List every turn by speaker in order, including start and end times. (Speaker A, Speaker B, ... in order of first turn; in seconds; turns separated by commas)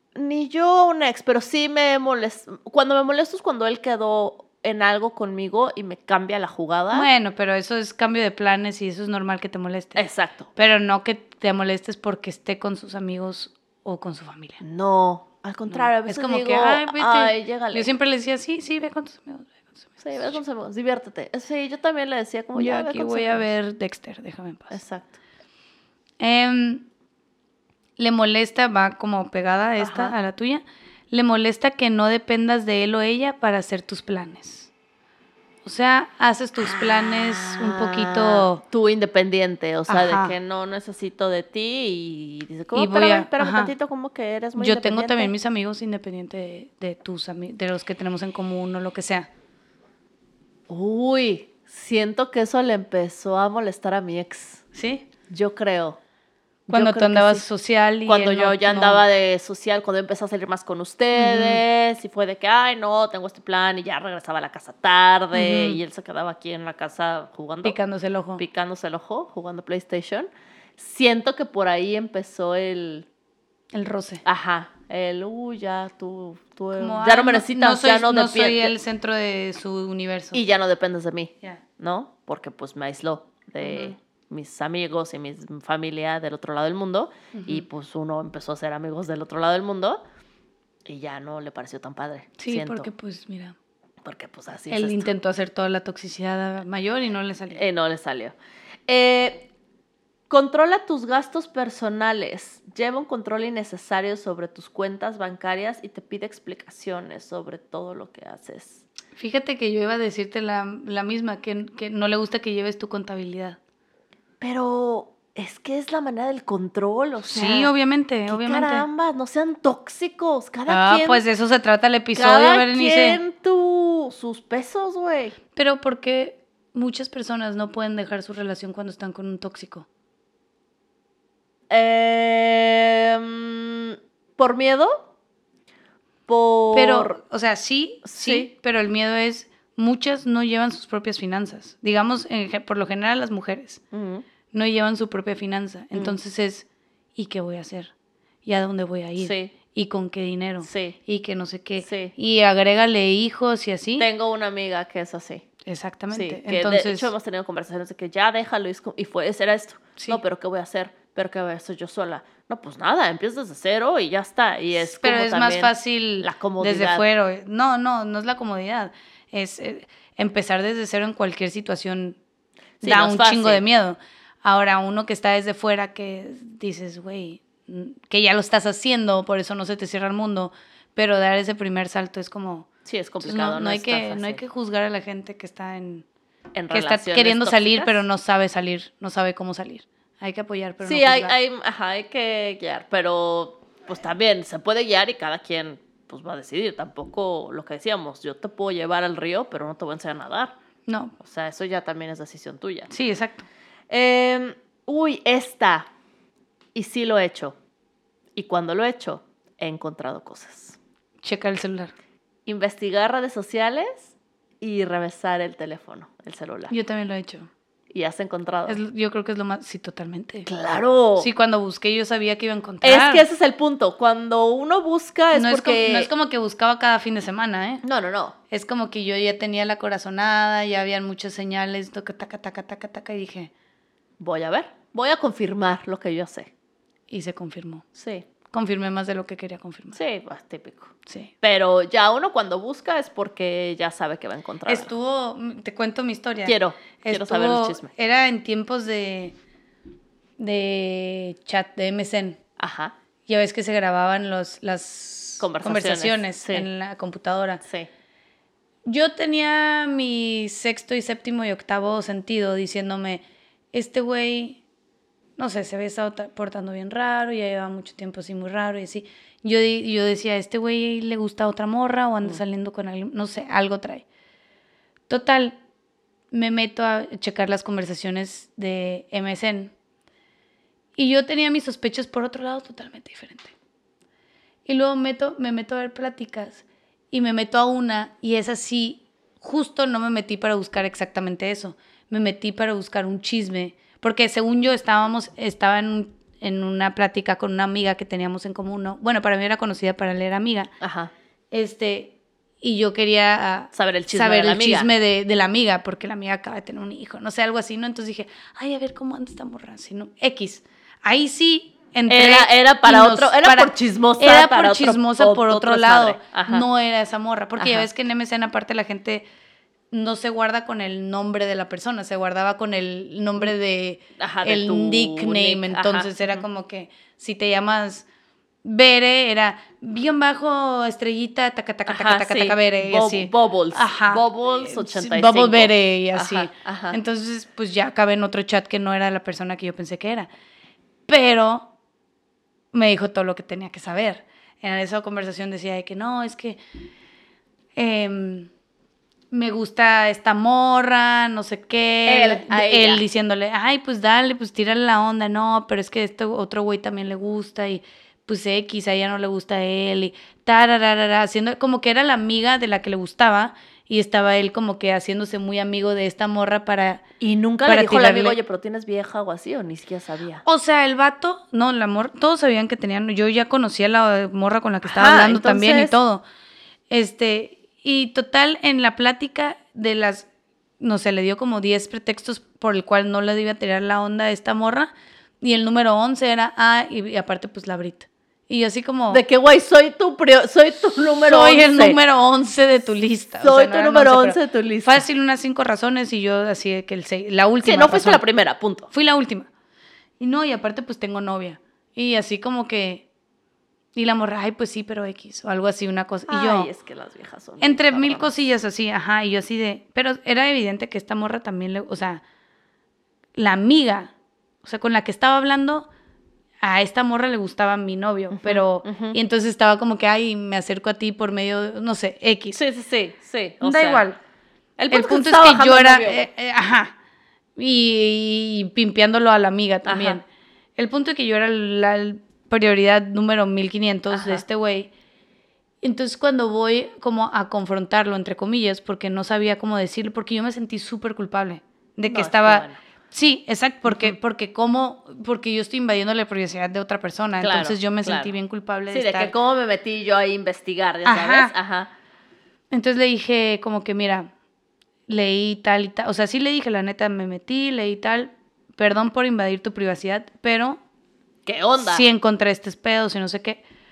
Speaker A: 0.1-7.1, Speaker B: 6.9-14.6, Speaker A: 9.9-10.5, Speaker A: 14.6-17.9, Speaker B: 15.7-20.4, Speaker A: 20.0-23.5, Speaker B: 22.5-24.8, Speaker A: 24.7-25.1, Speaker B: 26.2-26.8, Speaker B: 28.0-34.7, Speaker A: 29.8-30.1, Speaker B: 35.6-38.6, Speaker A: 36.6-45.3, Speaker B: 39.9-40.4, Speaker B: 42.7-43.7, Speaker B: 44.6-49.3, Speaker A: 50.7-54.6, Speaker B: 54.7-55.0, Speaker A: 55.3-56.0, Speaker A: 56.7-57.4, Speaker B: 56.7-59.0, Speaker A: 58.0-67.8, Speaker B: 61.1-61.6, Speaker B: 65.3-65.8, Speaker B: 67.6-68.4, Speaker A: 68.4-73.1, Speaker B: 73.7-74.2, Speaker A: 74.2-78.7, Speaker B: 76.7-80.4, Speaker A: 80.3-90.0, Speaker B: 83.6-84.0, Speaker B: 87.3-87.7, Speaker A: 90.8-92.9, Speaker B: 92.4-93.5, Speaker A: 94.0-95.1, Speaker B: 94.7-97.6, Speaker A: 97.5-98.3, Speaker A: 98.9-99.5, Speaker A: 100.3-108.8, Speaker B: 109.2-113.6, Speaker A: 114.4-117.7, Speaker B: 117.3-118.9, Speaker A: 118.3-121.2, Speaker B: 120.7-123.2, Speaker A: 122.1-125.4, Speaker B: 125.5-129.8, Speaker A: 131.7-135.1, Speaker A: 136.3-137.2, Speaker B: 136.7-143.8, Speaker A: 138.0-138.5, Speaker A: 143.9-144.2, Speaker B: 144.5-147.9, Speaker B: 148.4-154.1, Speaker A: 149.2-149.5, Speaker A: 150.6-151.0, Speaker A: 151.8-152.1, Speaker A: 154.0-155.4, Speaker B: 155.7-157.1, Speaker A: 156.1-167.0, Speaker B: 164.8-172.2, Speaker A: 172.8-173.6, Speaker B: 172.8-182.7, Speaker A: 182.8-184.4, Speaker B: 183.2-186.0, Speaker A: 186.5-188.0, Speaker B: 186.7-191.4, Speaker A: 190.8-200.5, Speaker B: 200.9-201.1, Speaker A: 201.2-202.9, Speaker B: 202.9-203.4, Speaker A: 203.9-205.9, Speaker A: 206.7-207.6, Speaker A: 208.3-210.8, Speaker B: 211.2-211.9, Speaker A: 212.4-216.7, Speaker B: 216.7-217.5, Speaker A: 217.9-218.8, Speaker B: 218.7-220.5, Speaker A: 220.4-221.3, Speaker B: 221.2-223.2, Speaker A: 222.8-226.1, Speaker B: 225.3-227.8, Speaker A: 227.8-228.3, Speaker B: 228.5-233.5, Speaker A: 234.2-236.5, Speaker B: 237.1-237.8, Speaker A: 237.9-238.2, Speaker B: 238.5-240.0, Speaker A: 239.9-244.9, Speaker B: 241.1-241.3, Speaker B: 244.7-249.3, Speaker A: 246.4-247.9, Speaker B: 250.4-252.4, Speaker A: 252.6-252.9, Speaker B: 253.3-257.6, Speaker A: 255.4-256.7, Speaker B: 258.9-264.6, Speaker B: 265.4-274.0, Speaker B: 275.1-275.6, Speaker B: 276.3-279.7, Speaker B: 280.9-283.5, Speaker B: 284.6-300.7, Speaker A: 300.8-301.1, Speaker B: 301.5-319.2, Speaker A: 303.7-304.9, Speaker A: 312.1-316.6, Speaker A: 317.6-317.9, Speaker B: 319.9-328.1, Speaker A: 324.2-326.4, Speaker B: 328.6-340.3, Speaker A: 331.9-337.0, Speaker B: 341.1-341.7, Speaker B: 342.7-346.6, Speaker B: 347.8-348.5, Speaker B: 349.3-367.0, Speaker A: 352.1-353.0, Speaker A: 367.2-370.4, Speaker B: 367.6-368.4, Speaker B: 370.4-376.2, Speaker A: 374.8-376.0, Speaker B: 376.9-380.3, Speaker B: 380.8-389.2, Speaker A: 389.1-392.0, Speaker B: 391.2-398.2, Speaker A: 393.4-395.0, Speaker A: 397.6-398.9, Speaker B: 398.9-399.5, Speaker B: 400.2-403.0, Speaker B: 403.9-406.7, Speaker A: 406.3-408.3, Speaker B: 407.6-412.2, Speaker B: 413.4-414.1, Speaker B: 414.6-415.9, Speaker B: 416.6-422.6, Speaker A: 418.3-419.2, Speaker A: 422.5-424.0, Speaker B: 423.6-424.2, Speaker A: 424.8-426.3, Speaker B: 424.9-426.9, Speaker B: 427.6-430.2, Speaker A: 429.9-430.2, Speaker B: 430.8-434.9, Speaker A: 434.1-434.4, Speaker B: 435.8-449.3, Speaker A: 442.0-442.8, Speaker A: 443.9-444.1, Speaker A: 447.4-448.3, Speaker A: 448.9-451.9, Speaker B: 451.0-451.5, Speaker B: 452.7-454.3, Speaker B: 455.1-460.8, Speaker A: 461.4-462.1, Speaker B: 461.8-463.6